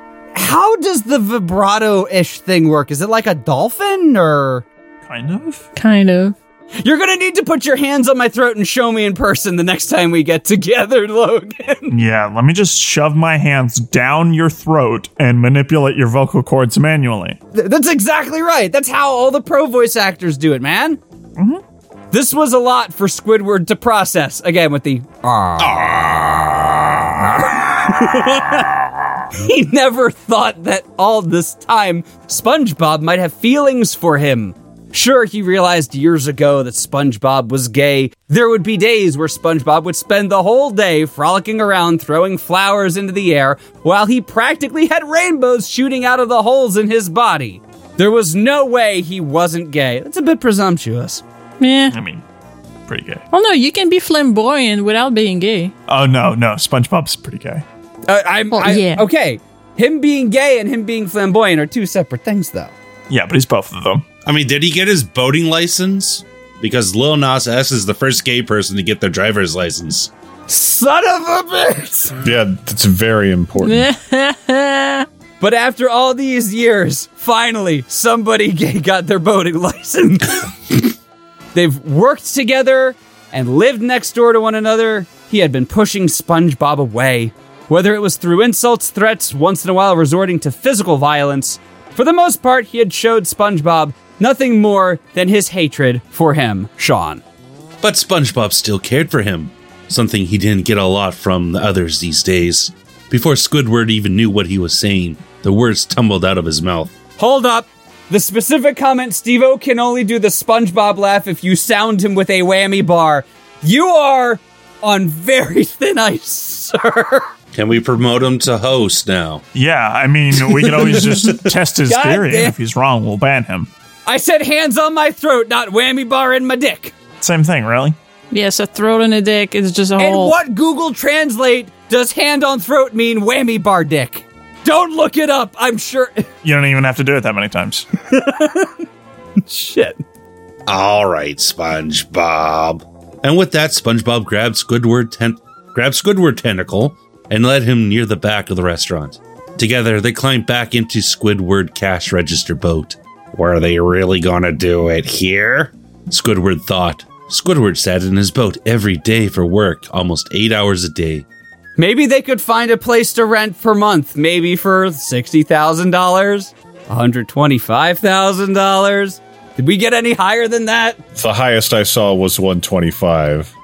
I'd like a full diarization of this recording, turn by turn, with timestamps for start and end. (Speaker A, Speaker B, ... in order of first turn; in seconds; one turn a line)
Speaker A: 0.3-4.7
Speaker B: 5.0-5.6
Speaker C: 5.8-6.3
Speaker A: 6.8-11.9
Speaker B: 11.9-17.4
Speaker A: 17.5-21.0
Speaker A: 22.1-51.2
Speaker C: 51.6-52.0
Speaker B: 51.9-52.2
Speaker B: 52.9-53.2
Speaker C: 53.3-55.7
Speaker B: 55.9-57.6
Speaker A: 58.1-62.7
Speaker C: 58.5-59.0
Speaker B: 63.1-64.0
Speaker D: 64.2-70.1
Speaker A: 70.5-72.2
Speaker E: 72.2-73.9
Speaker C: 73.6-75.0
Speaker A: 75.4-80.8
Speaker A: 81.5-97.2
Speaker D: 97.8-106.9
Speaker A: 107.2-117.3
Speaker D: 117.5-119.4
Speaker B: 119.5-123.7
Speaker A: 121.9-122.5
Speaker A: 124.0-126.9
Speaker B: 127.2-128.0
Speaker C: 128.3-130.3
Speaker A: 130.0-136.3
Speaker B: 136.4-137.8
Speaker A: 138.1-138.7
Speaker A: 139.4-140.0
Speaker D: 140.7-161.2
Speaker A: 161.8-171.0
Speaker E: 171.2-173.5